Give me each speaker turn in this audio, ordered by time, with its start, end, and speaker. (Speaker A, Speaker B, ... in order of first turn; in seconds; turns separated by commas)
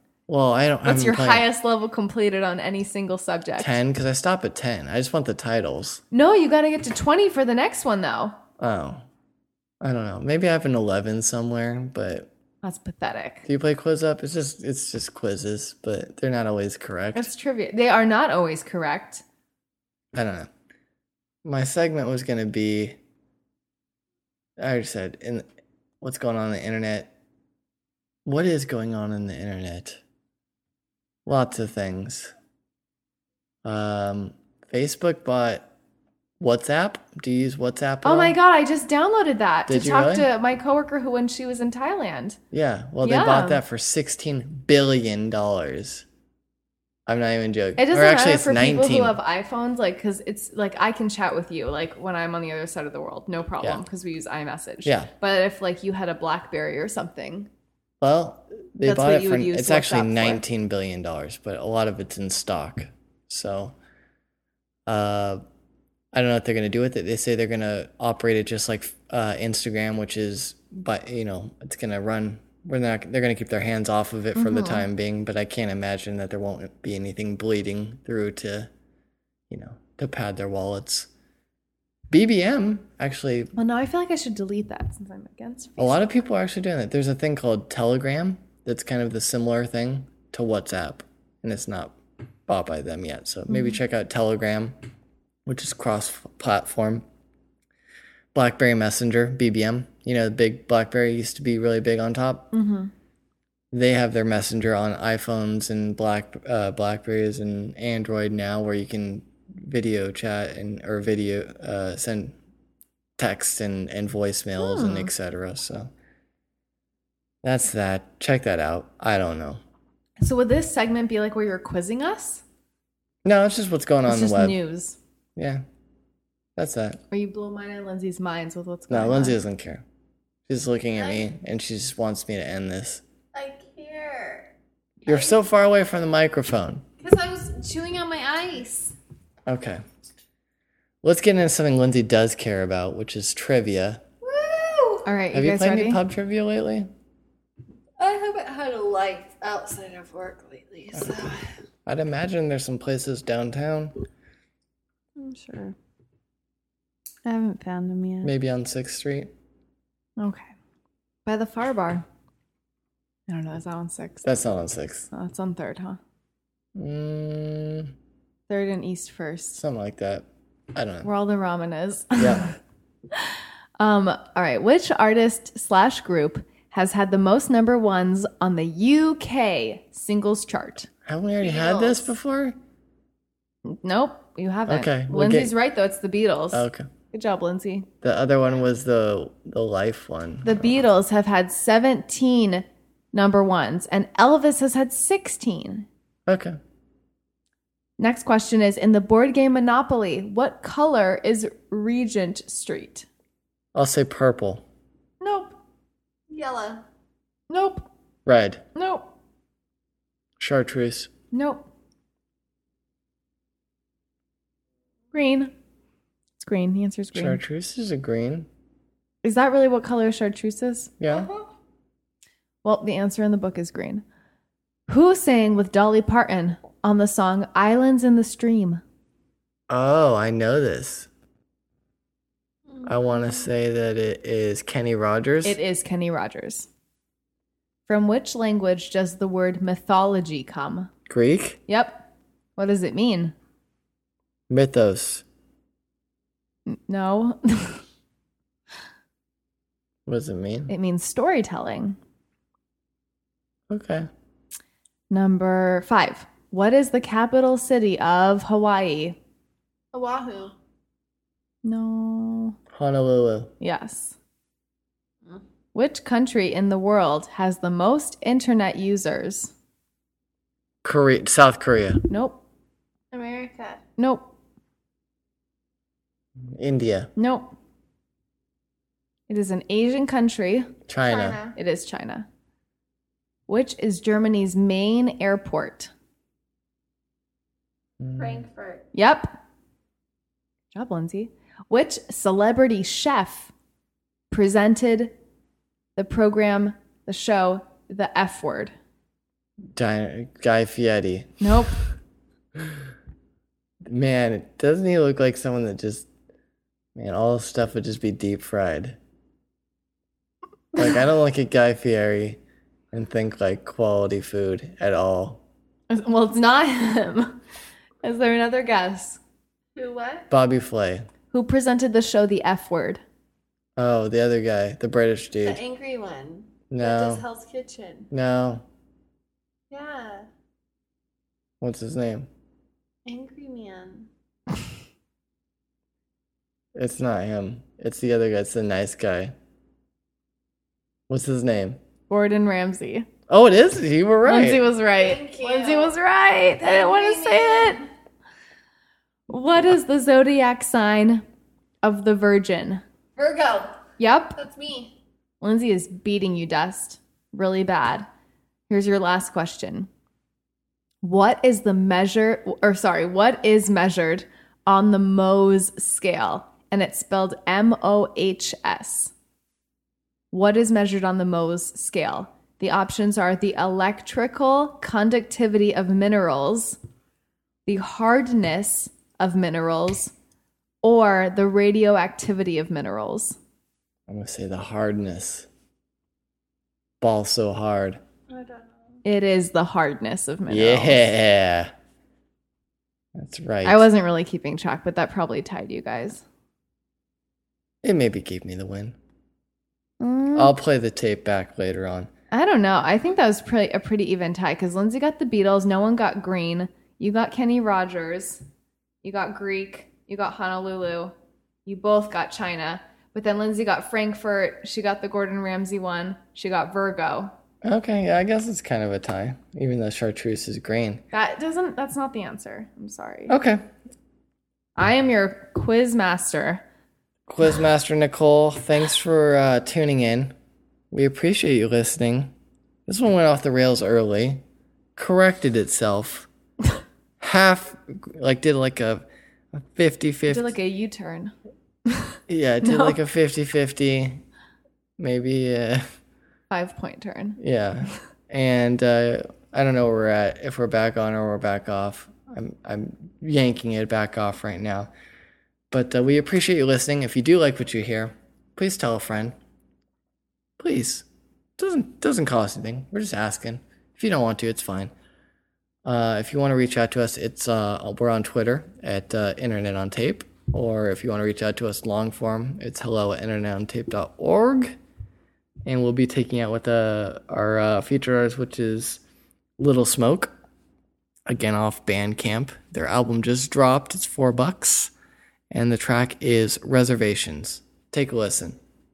Speaker A: 0.3-1.5, Speaker B: 0.8-3.8, Speaker A: 3.6-6.0, Speaker B: 6.1-8.4, Speaker A: 8.6-9.0, Speaker A: 9.8-12.3, Speaker B: 12.6-13.4, Speaker A: 13.4-17.3, Speaker B: 17.1-19.2, Speaker A: 20.1-20.5, Speaker A: 21.4-23.0, Speaker A: 24.6-25.4, Speaker A: 26.0-27.1, Speaker A: 28.2-30.0, Speaker A: 31.2-32.3, Speaker A: 33.6-35.7, Speaker A: 36.4-38.4, Speaker B: 38.0-42.4, Speaker A: 39.7-40.3, Speaker A: 42.5-46.0, Speaker B: 43.0-43.6, Speaker A: 47.1-49.2, Speaker B: 47.8-57.5, Speaker A: 54.8-55.1, Speaker A: 58.0-63.7, Speaker B: 58.8-60.4, Speaker A: 64.9-65.4, Speaker A: 66.1-78.7, Speaker B: 74.3-74.9, Speaker A: 79.5-81.1, Speaker A: 82.1-83.5, Speaker B: 83.6-86.0, Speaker A: 85.8-94.8, Speaker B: 93.5-93.8, Speaker A: 95.5-97.0, Speaker A: 98.3-102.5, Speaker B: 102.5-102.9, Speaker A: 103.7-112.3, Speaker A: 113.2-115.9, Speaker B: 114.6-115.1, Speaker A: 117.4-119.6, Speaker B: 120.2-122.4, Speaker A: 123.2-124.6, Speaker B: 124.0-125.0, Speaker A: 125.3-125.6, Speaker A: 126.6-127.0, Speaker B: 127.1-129.4, Speaker A: 128.9-129.8, Speaker A: 130.5-133.0, Speaker C: 131.0-131.3, Speaker C: 133.3-134.5, Speaker C: 135.1-135.3, Speaker A: 135.1-136.8, Speaker C: 137.0-138.9, Speaker A: 139.4-139.8, Speaker A: 141.0-144.0, Speaker C: 144.2-145.1, Speaker B: 145.0-146.0, Speaker A: 145.3-146.9, Speaker C: 148.0-151.5, Speaker A: 151.8-154.0, Speaker B: 155.2-155.7, Speaker B: 157.2-158.3, Speaker A: 158.2-159.3, Speaker B: 160.2-160.5, Speaker B: 161.2-162.0, Speaker B: 163.3-164.2, Speaker A: 164.2-165.1, Speaker B: 165.1-166.0, Speaker A: 166.8-167.9, Speaker B: 168.5-169.6, Speaker A: 169.6-171.1, Speaker B: 171.0-172.6, Speaker A: 172.2-172.4, Speaker B: 173.1-180.9, Speaker A: 181.0-182.6, Speaker B: 181.4-181.9, Speaker B: 183.7-187.9, Speaker A: 184.7-185.5, Speaker A: 186.5-186.9, Speaker A: 188.0-190.7, Speaker B: 190.4-195.9, Speaker A: 196.3-196.6, Speaker B: 198.0-203.1, Speaker A: 203.7-204.6, Speaker B: 205.2-205.6, Speaker C: 206.3-206.8, Speaker B: 207.5-207.9, Speaker A: 208.2-208.6, Speaker B: 208.7-209.1, Speaker A: 210.4-211.1, Speaker B: 211.3-211.7, Speaker B: 215.1-215.5, Speaker B: 216.4-217.4, Speaker A: 217.1-218.5, Speaker B: 219.2-220.9, Speaker A: 221.0-221.3, Speaker B: 222.6-224.0, Speaker B: 224.9-228.8, Speaker A: 229.7-231.1, Speaker A: 232.8-235.6, Speaker B: 235.4-236.7, Speaker B: 237.9-240.9, Speaker A: 241.1-241.6, Speaker B: 241.7-242.0, Speaker B: 242.6-243.3, Speaker A: 244.5-245.2, Speaker B: 246.7-247.8, Speaker A: 250.1-250.7, Speaker B: 250.7-252.0, Speaker A: 253.7-254.1, Speaker B: 255.1-259.2, Speaker C: 259.9-260.5, Speaker B: 261.6-262.6, Speaker A: 262.7-263.5, Speaker B: 263.6-264.1, Speaker B: 265.7-269.5, Speaker A: 270.8-272.0, Speaker B: 272.1-272.4, Speaker C: 273.1-273.8, Speaker B: 274.0-274.3, Speaker A: 276.5-277.1, Speaker B: 277.2-277.5, Speaker B: 279.3-280.8, Speaker A: 280.9-281.4, Speaker C: 281.0-281.5, Speaker B: 281.5-282.2, Speaker B: 283.5-285.9, Speaker A: 288.0-288.4, Speaker C: 288.2-288.8, Speaker B: 288.9-289.3, Speaker B: 290.7-293.5, Speaker B: 294.3-295.1, Speaker B: 295.9-298.7, Speaker A: 299.7-301.4, Speaker B: 301.4-301.8, Speaker A: 303.8-306.1, Speaker A: 306.9-309.0, Speaker A: 310.7-312.4, Speaker A: 312.9-315.4, Speaker B: 315.9-317.4, Speaker B: 318.0-319.2, Speaker C: 319.8-320.3, Speaker A: 320.3-321.1, Speaker B: 321.3-323.0, Speaker A: 323.8-325.6, Speaker C: 325.4-328.1, Speaker A: 326.7-327.2, Speaker A: 328.1-328.6, Speaker C: 329.7-330.3, Speaker A: 331.6-332.3, Speaker C: 333.1-334.1, Speaker A: 336.7-339.3, Speaker A: 341.1-341.8, Speaker B: 342.1-343.1, Speaker A: 343.3-344.7, Speaker B: 344.2-347.8, Speaker C: 344.9-346.0, Speaker C: 346.6-347.9, Speaker B: 349.3-351.2, Speaker B: 351.8-352.8, Speaker C: 353.2-353.8, Speaker B: 354.0-354.4, Speaker C: 354.4-354.9, Speaker B: 355.4-358.1, Speaker B: 358.7-359.9, Speaker B: 361.0-369.1, Speaker B: 370.3-376.8, Speaker B: 377.6-380.1, Speaker B: 380.8-383.4, Speaker A: 384.1-385.5, Speaker A: 387.0-388.0, Speaker C: 388.3-389.0, Speaker B: 389.0-391.1, Speaker A: 390.5-391.7, Speaker A: 393.1-393.8, Speaker B: 393.6-396.2, Speaker A: 397.8-398.9, Speaker B: 400.0-400.5, Speaker A: 400.3-402.1, Speaker B: 402.3-408.4, Speaker B: 409.0-411.1, Speaker B: 411.6-417.3, Speaker A: 417.6-421.0, Speaker B: 421.1-423.4, Speaker A: 423.3-423.6, Speaker B: 424.8-426.6, Speaker A: 427.3-430.3, Speaker A: 430.9-432.3, Speaker A: 432.9-434.4, Speaker A: 434.9-436.3, Speaker A: 437.2-440.5, Speaker B: 440.3-441.3, Speaker B: 441.9-443.0, Speaker A: 442.3-444.2, Speaker A: 445.0-445.9, Speaker B: 446.5-447.4, Speaker A: 447.4-454.9, Speaker A: 455.7-459.4, Speaker A: 460.6-461.1, Speaker A: 461.6-464.9, Speaker A: 465.8-474.7, Speaker A: 475.6-479.0, Speaker A: 479.6-480.3, Speaker A: 481.3-484.9, Speaker A: 485.5-488.6